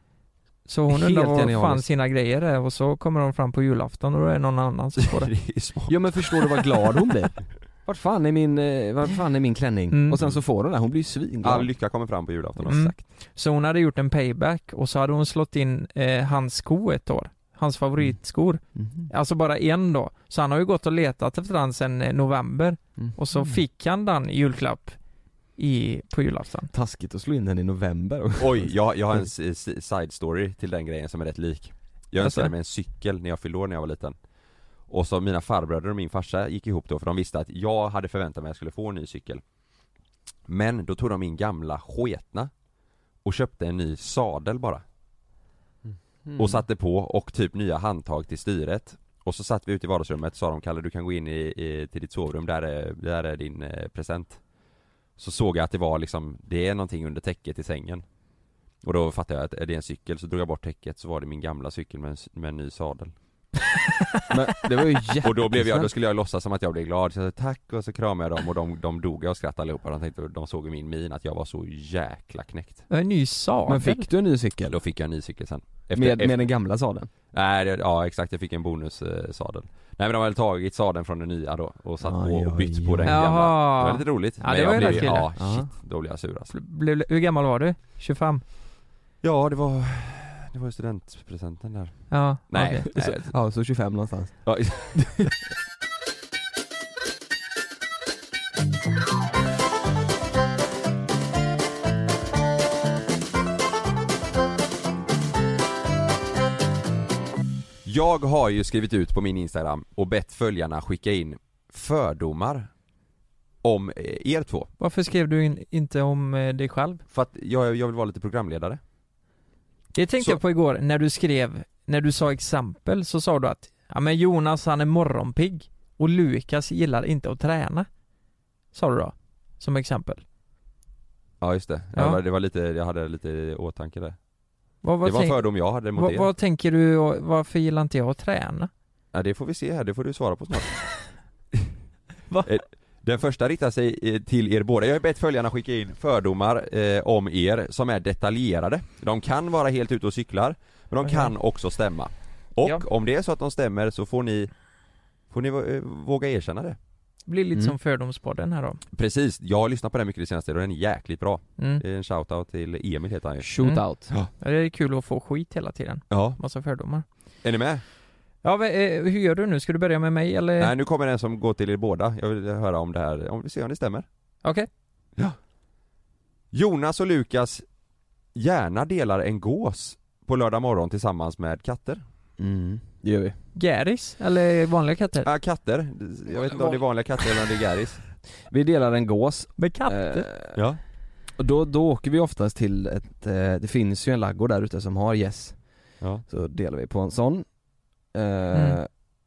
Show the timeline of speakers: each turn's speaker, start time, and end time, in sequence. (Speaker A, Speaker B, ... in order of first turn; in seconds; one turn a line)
Speaker A: 0.7-5.3
Speaker B: 0.9-1.9
Speaker C: 5.2-6.6
Speaker B: 5.9-11.7
Speaker A: 9.9-10.2
Speaker C: 11.4-12.9
Speaker B: 12.7-12.9
Speaker A: 12.7-25.0
Speaker B: 18.7-19.1
Speaker B: 23.0-23.6
Speaker A: 25.6-26.7
Speaker B: 26.7-29.3
Speaker C: 28.4-34.2
Speaker A: 32.2-32.5
Speaker C: 34.9-39.4
Speaker C: 40.5-42.5
Speaker C: 43.2-44.8
Speaker B: 45.8-46.6
Speaker C: 46.4-54.4
Speaker C: 55.2-58.0
Speaker C: 58.8-63.1
Speaker B: 64.3-65.9
Speaker C: 65.2-72.8
Speaker A: 72.9-74.1
Speaker B: 73.7-74.8
Speaker C: 74.7-76.4
Speaker B: 75.9-77.1
Speaker C: 77.3-86.5
Speaker B: 82.0-83.2
Speaker A: 83.1-85.3
Speaker B: 84.6-85.7
Speaker A: 86.5-88.4
Speaker C: 89.2-93.3
Speaker A: 92.1-92.8
Speaker B: 92.8-95.0
Speaker C: 94.5-95.0
Speaker C: 107.8-112.7
Speaker C: 113.6-114.7
Speaker A: 114.8-117.0
Speaker C: 117.1-118.8
Speaker A: 120.0-127.9
Speaker A: 128.7-130.2
Speaker C: 131.4-134.2
Speaker A: 134.8-138.7
Speaker C: 135.0-136.3
Speaker C: 139.1-140.9
Speaker C: 142.4-154.5
Speaker A: 151.0-151.3
Speaker C: 155.3-156.8
Speaker A: 157.3-158.8
Speaker C: 158.9-164.3
Speaker B: 163.4-164.1
Speaker A: 163.6-167.1
Speaker C: 166.1-166.4
Speaker C: 167.4-167.8
Speaker A: 168.4-170.7
Speaker C: 170.6-174.1
Speaker C: 176.5-177.6
Speaker C: 178.3-182.0
Speaker B: 182.4-183.4
Speaker A: 183.6-185.3
Speaker C: 185.2-188.0
Speaker B: 188.5-190.6
Speaker A: 189.6-190.3
Speaker C: 190.6-190.8
Speaker B: 191.4-198.9